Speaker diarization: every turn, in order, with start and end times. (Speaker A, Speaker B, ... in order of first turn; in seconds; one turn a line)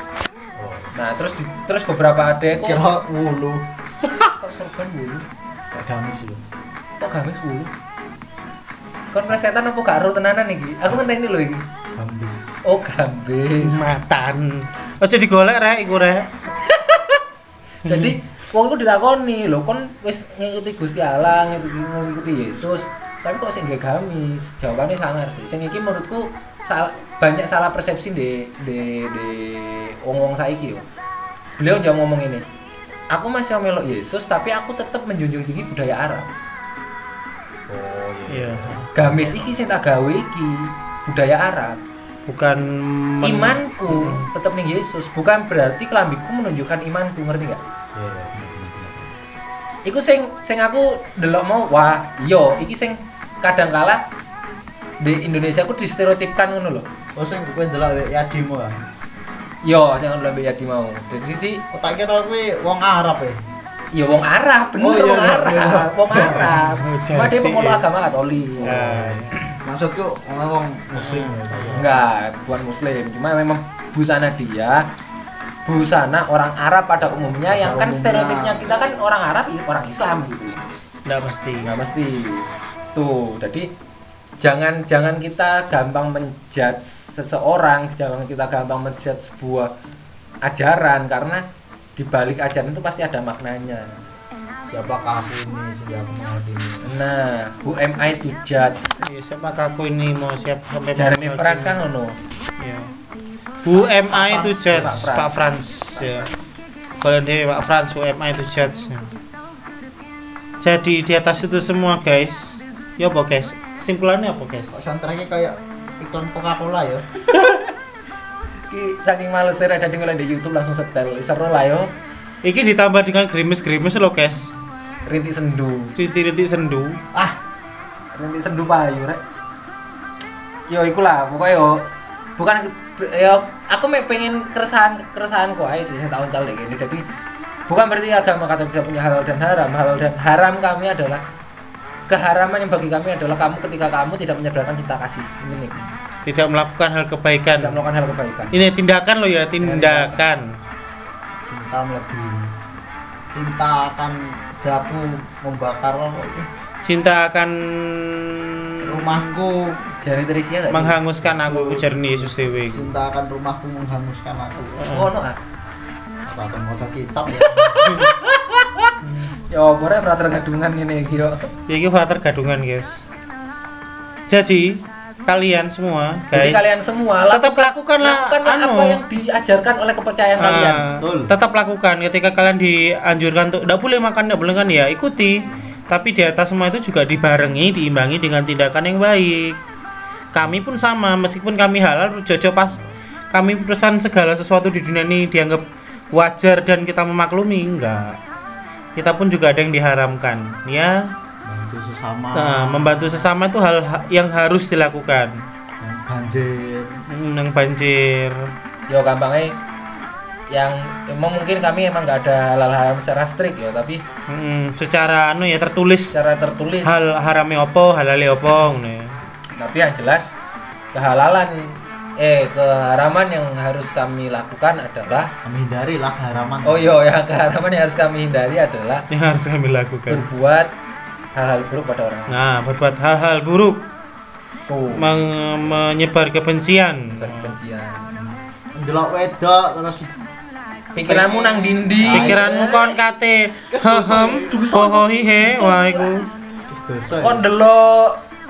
Speaker A: 0.5-0.9
Speaker B: 0.9-2.8
Speaker A: 2.5-4.3
Speaker B: 4.4-5.2
Speaker A: 5.7-6.4
Speaker B: 7.0-7.7
Speaker B: 9.1-11.6
Speaker A: 11.9-12.4
Speaker B: 12.7-13.8
Speaker C: 13.6-16.3
Speaker B: 16.6-17.2
Speaker C: 17.9-18.1
Speaker B: 17.9-30.8
Speaker B: 31.6-32.4
Speaker B: 33.1-36.3
Speaker A: 37.7-39.4
Speaker C: 38.3-38.9
Speaker B: 38.9-41.8
Speaker C: 42.3-44.3
Speaker B: 43.2-47.6
Speaker A: 47.9-49.1
Speaker B: 49.9-54.0
Speaker B: 55.0-56.8
Speaker A: 57.1-58.8
Speaker B: 59.6-61.6
Speaker A: 61.7-63.4
Speaker B: 63.9-68.8
Speaker A: 64.8-66.5
Speaker C: 66.1-67.8
Speaker A: 68.6-72.0
Speaker C: 68.6-69.3
Speaker C: 71.0-71.8
Speaker B: 71.8-74.8
Speaker B: 75.7-80.6
Speaker A: 77.5-78.7
Speaker C: 81.0-81.7
Speaker B: 81.6-83.7
Speaker B: 84.4-89.7
Speaker B: 90.4-91.4
Speaker B: 92.0-94.0
Speaker A: 94.7-96.9
Speaker B: 96.8-99.0
Speaker C: 99.0-101.8
Speaker B: 100.9-102.2
Speaker C: 102.6-102.9
Speaker C: 103.6-106.2
Speaker A: 104.0-105.1
Speaker B: 104.7-105.4
Speaker B: 105.9-106.3
Speaker C: 107.0-109.1
Speaker C: 110.6-114.7
Speaker A: 114.7-117.1
Speaker B: 118.7-121.9
Speaker C: 122.4-124.5
Speaker B: 125.0-125.9
Speaker C: 126.0-127.0
Speaker B: 128.1-129.2
Speaker B: 130.7-137.0
Speaker B: 137.7-141.2
Speaker B: 142.1-145.8
Speaker C: 146.2-147.8
Speaker B: 147.6-148.6
Speaker C: 148.5-150.5
Speaker B: 149.6-150.2
Speaker A: 151.4-152.5
Speaker A: 153.3-156.5
Speaker C: 156.8-159.2
Speaker A: 158.8-159.8
Speaker B: 160.0-161.8
Speaker C: 160.7-162.9
Speaker A: 162.7-164.7
Speaker B: 164.7-165.4
Speaker C: 164.8-165.1
Speaker A: 166.2-168.0
Speaker B: 167.4-171.5
Speaker C: 171.7-173.0
Speaker C: 174.3-176.7
Speaker B: 176.3-181.0
Speaker C: 177.3-179.0
Speaker C: 180.4-189.6
Speaker A: 181.0-181.3
Speaker C: 190.3-192.8
Speaker C: 193.3-198.2
Speaker C: 198.9-201.0
Speaker A: 201.4-203.3
Speaker C: 202.3-205.4
Speaker A: 205.8-207.0
Speaker C: 207.1-208.5
Speaker B: 208.9-209.6
Speaker B: 210.5-214.0
Speaker C: 214.3-216.1
Speaker B: 216.1-216.9
Speaker C: 216.8-219.2
Speaker B: 219.6-220.3
Speaker B: 220.9-225.3
Speaker A: 225.4-226.9
Speaker B: 226.6-229.1
Speaker C: 229.1-230.3
Speaker B: 230.1-230.7
Speaker B: 231.3-232.4
Speaker C: 232.3-233.8
Speaker B: 234.7-235.2
Speaker C: 234.9-237.5
Speaker B: 237.2-238.1
Speaker A: 238.1-240.1
Speaker B: 240.9-243.0
Speaker A: 241.0-242.6
Speaker C: 242.1-246.2
Speaker A: 243.7-244.6
Speaker B: 244.3-246.4
Speaker A: 246.7-247.4
Speaker B: 247.2-248.2